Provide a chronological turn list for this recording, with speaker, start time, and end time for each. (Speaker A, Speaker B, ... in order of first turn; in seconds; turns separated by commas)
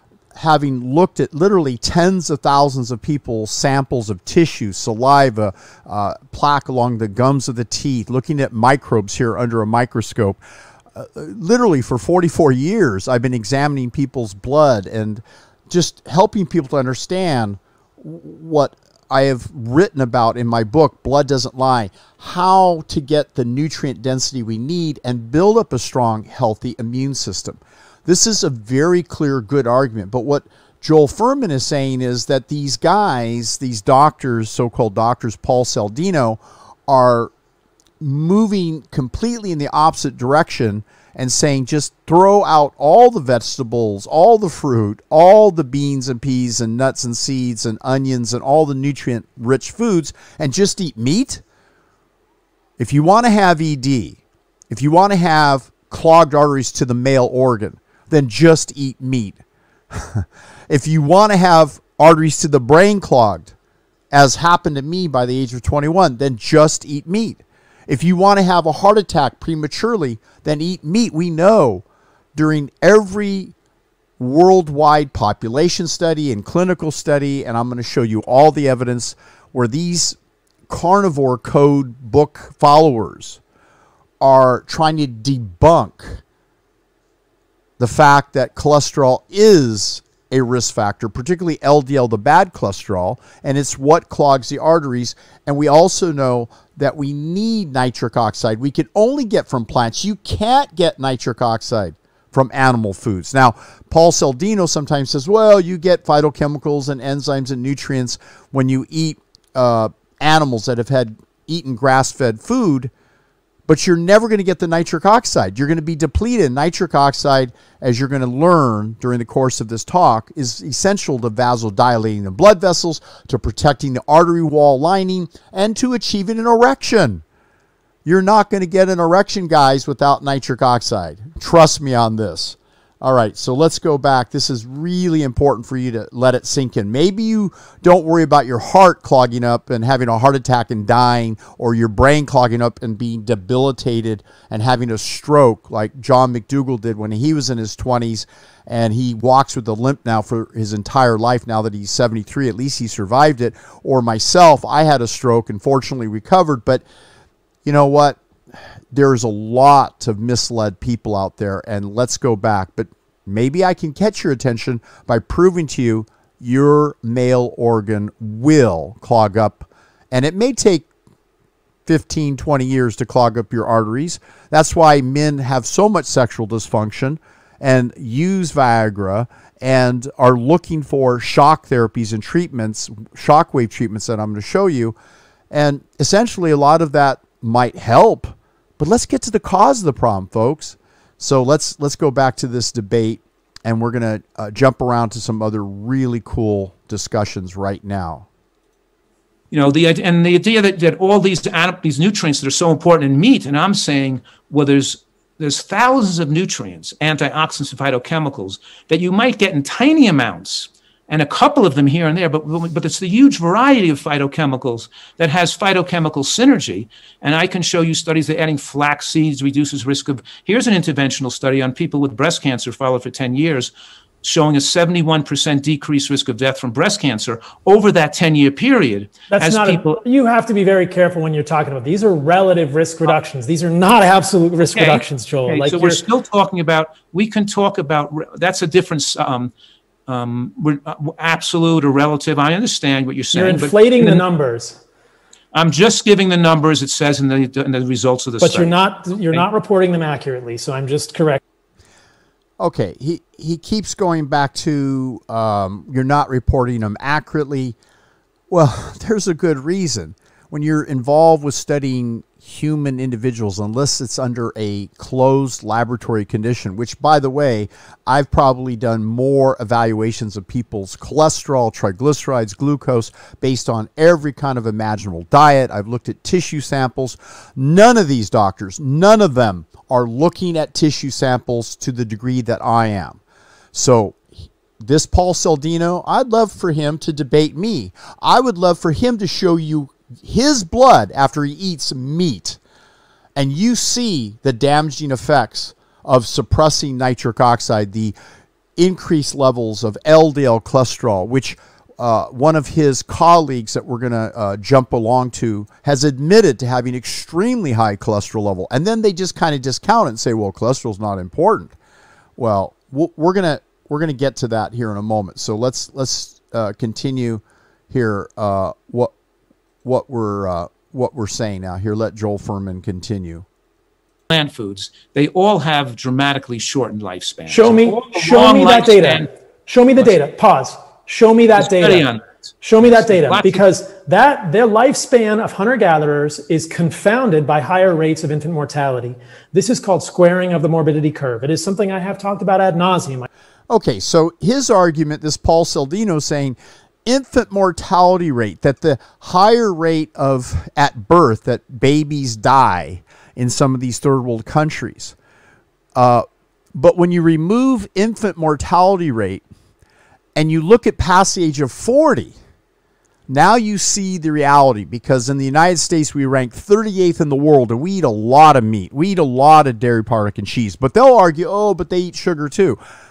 Speaker A: 0.3-10.4, Speaker A: 10.9-37.3, Speaker A: 38.0-51.4, Speaker A: 52.8-54.2, Speaker A: 54.7-59.4, Speaker A: 59.9-63.5, Speaker A: 64.1-71.8, Speaker A: 72.3-73.5, Speaker A: 74.2-80.2, Speaker A: 80.7-83.4, Speaker A: 84.2-86.2, Speaker A: 87.8-112.9, Speaker A: 113.7-127.2, Speaker A: 128.0-156.8, Speaker A: 157.6-158.2, Speaker A: 158.9-170.9, Speaker A: 171.8-184.9, Speaker A: 185.5-198.2, Speaker B: 199.5-223.7, Speaker B: 224.2-230.0, Speaker C: 229.3-236.0, Speaker B: 234.7-239.5, Speaker B: 240.1-244.2, Speaker C: 243.3-244.8, Speaker B: 245.5-249.4, Speaker C: 248.4-251.4, Speaker A: 252.6-257.8, Speaker A: 258.5-283.2, Speaker A: 283.7-284.2, Speaker A: 284.8-292.6, Speaker A: 293.4-298.1, Speaker A: 298.8-311.8, Speaker A: 312.4-319.1, Speaker A: 319.8-323.4, Speaker B: 324.3-329.3, Speaker C: 327.5-332.1, Speaker B: 331.5-332.3, Speaker C: 332.6-343.3, Speaker B: 332.8-333.6, Speaker A: 343.7-355.1, Speaker A: 355.9-359.4, Speaker A: 360.4-362.4, Speaker A: 363.3-372.8